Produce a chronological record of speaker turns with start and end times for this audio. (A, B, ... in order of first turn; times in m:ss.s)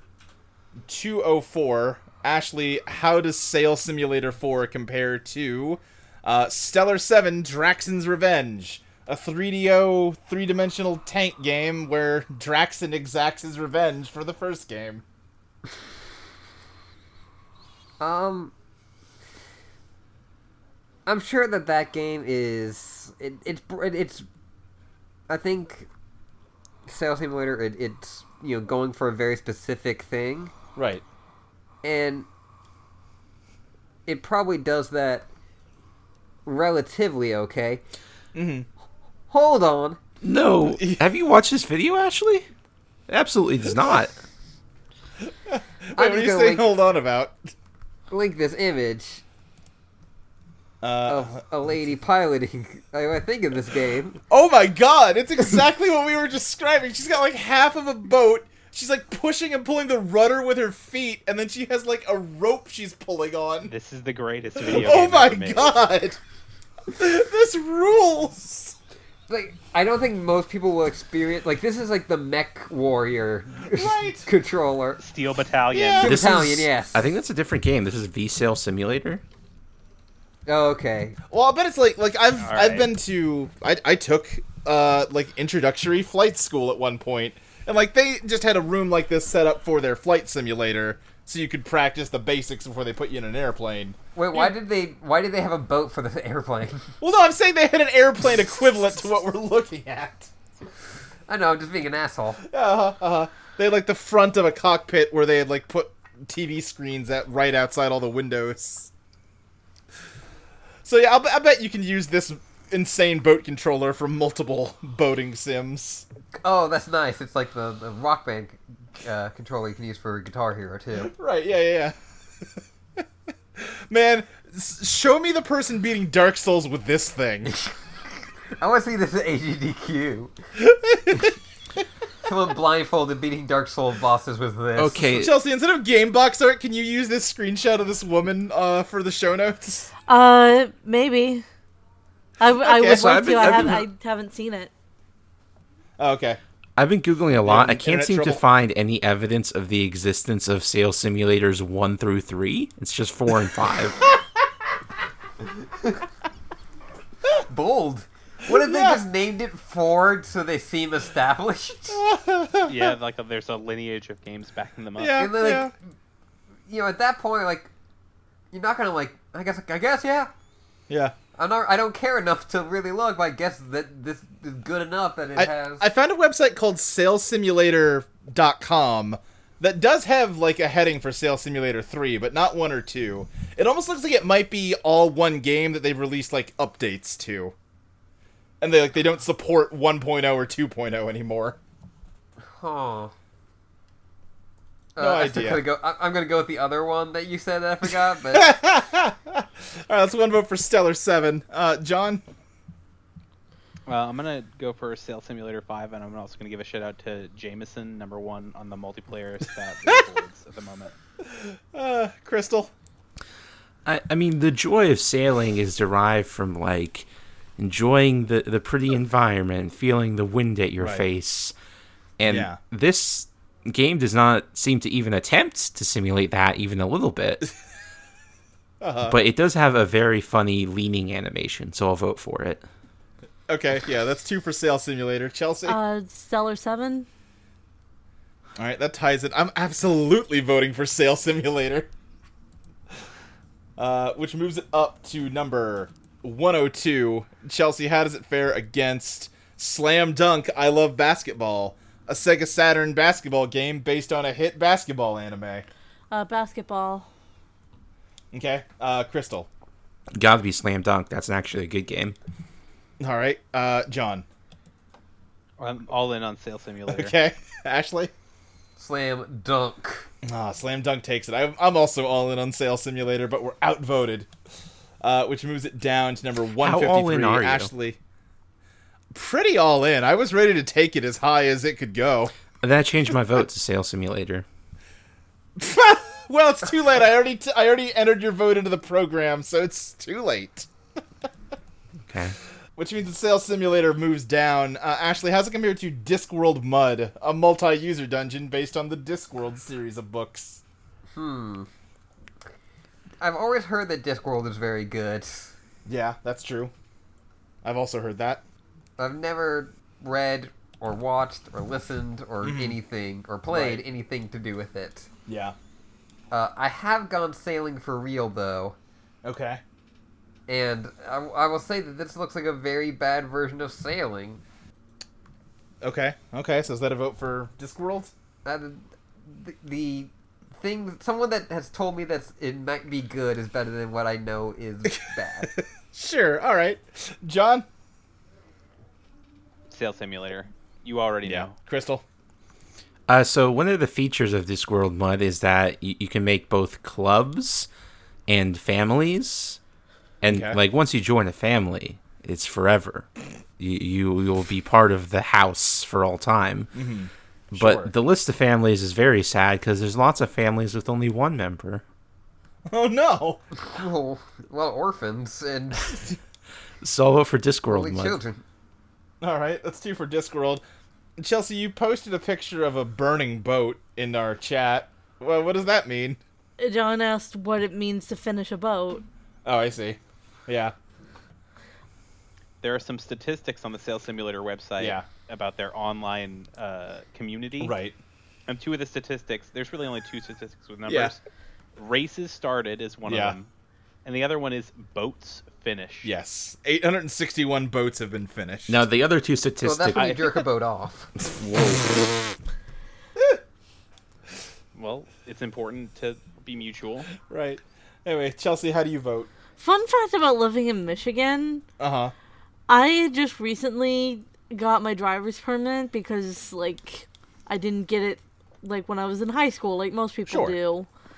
0:00.8-0:15.0 A
0:18.0-0:18.5 B
0:21.0-0:24.2 B
0:25.3-0:25.9 B
0:26.8-0:30.5 B
0:30.8-0:31.0 A
0:31.8-0:32.3 B
0:34.0-0:35.3 B
0:36.4-0:37.8 B
0:38.3-0:38.7 A
0:39.3-0:40.0 B
0:40.2-0:42.5 C
0:40.6-0:41.0 A
0:43.1-0:44.1 C
0:45.5-0:47.4 A
0:46.0-0:46.7 B
0:48.1-0:49.2 B
0:50.8-0:51.4 A
0:51.1-0:54.2 B
0:54.3-1:03.7 A
1:03.7-1:05.8 D
1:04.6-1:06.2 A
1:06.9-1:08.8 A
1:09.3-1:15.0 B
1:13.7-1:14.3 A
1:15.0-1:16.1 D
1:15.7-1:16.1 A
1:16.0-1:17.0 B
1:16.0-1:19.2 C
1:20.4-1:21.2 B
1:21.3-1:34.5 A
1:22.4-1:22.9 D
1:34.1-1:36.9 B
1:37.0-1:40.3 A
1:41.3-1:42.4 B
1:42.5-1:48.9 A
1:50.8-1:56.0 A
1:56.4-2:01.1 B
2:01.0-2:01.9 A
2:03.6-2:07.6 A
2:08.6-2:10.3 B
2:10.6-2:11.3 A
2:12.2-2:15.0 B
2:14.8-2:15.3 C
2:15.1-2:19.9 A
2:20.1-2:21.4 E
2:22.4-2:24.7 E
2:22.6-2:23.8 A
2:22.9-2:23.8 C
2:26.0-2:26.4 A
2:26.8-2:34.0 C
2:27.4-2:28.4 A
2:37.5-2:42.0 B
2:38.5-2:39.0 A
2:41.9-2:42.9 A
2:42.7-2:45.3 D
2:45.0-2:45.7 A
2:45.2-2:45.7 B
2:46.7-2:47.7 B
2:48.5-2:50.3 B
2:50.9-2:51.1 A
2:51.4-2:55.8 B
2:55.4-3:07.5 A
3:08.6-3:11.6 A
3:12.4-3:13.1 B
3:15.0-3:18.5 B
3:15.0-3:15.6 A
3:18.3-3:22.2 A
3:23.8-3:30.9 D
3:31.2-3:32.7 A
3:33.8-3:41.5 C
3:40.8-3:41.0 A
3:42.2-3:47.4 C
3:42.2-3:42.6 A
3:48.8-3:49.2 A
3:49.1-3:52.6 C
3:53.5-3:55.8 A
3:55.6-3:57.0 E
3:58.6-4:01.9 A
4:03.8-4:15.6 A
4:16.1-4:17.0 E
4:18.3-4:19.5 A
4:20.1-4:22.2 C
4:23.0-4:24.2 A
4:25.6-4:27.1 D
4:26.9-4:28.1 A
4:28.8-4:30.1 B
4:30.2-4:34.3 A
4:35.0-4:38.0 A
4:36.6-4:37.7 C
4:39.1-4:42.3 A
4:42.6-4:44.4 C
4:45.6-4:50.7 A
4:52.1-4:52.4 C
4:52.8-5:00.6 A
5:01.1-5:01.7 B
5:03.2-5:05.5 B
5:05.8-5:06.7 A
5:07.6-5:08.4 A
5:09.0-5:15.1 B
5:12.4-5:12.8 A
5:13.5-5:13.8 A
5:15.3-5:15.5 A
5:16.3-5:18.8 B
5:19.2-5:19.6 A
5:20.5-5:24.4 B
5:25.8-5:28.1 A
5:28.4-5:35.5 B
5:34.9-5:37.6 A
5:39.7-5:41.5 D
5:41.2-5:42.0 A
5:43.1-5:47.7 C
5:48.3-5:49.6 C
5:50.2-5:56.7 C
5:50.3-5:50.6 A
5:56.7-5:57.9 A
5:57.5-6:01.8 C
6:02.7-6:03.4 A
6:03.6-6:06.0 B
6:06.8-6:08.2 C
6:07.7-6:08.4 B
6:09.2-6:10.6 A
6:11.2-6:16.2 A
6:16.6-6:19.0 E
6:19.4-6:20.7 A
6:22.6-6:27.7 D
6:24.8-6:25.0 A
6:27.6-6:28.0 A
6:28.5-6:31.2 D
6:30.9-6:31.1 A
6:31.8-6:33.5 D
6:33.0-6:33.4 A
6:34.0-6:36.1 D
6:36.0-6:38.8 A
6:38.7-6:40.4 C
6:39.6-6:41.1 B
6:41.2-6:42.2 C
6:44.7-6:47.1 D
6:47.2-6:49.3 A
6:49.6-6:51.6 E
6:51.8-6:52.1 A
6:52.7-7:00.9 E
7:00.2-7:00.6 A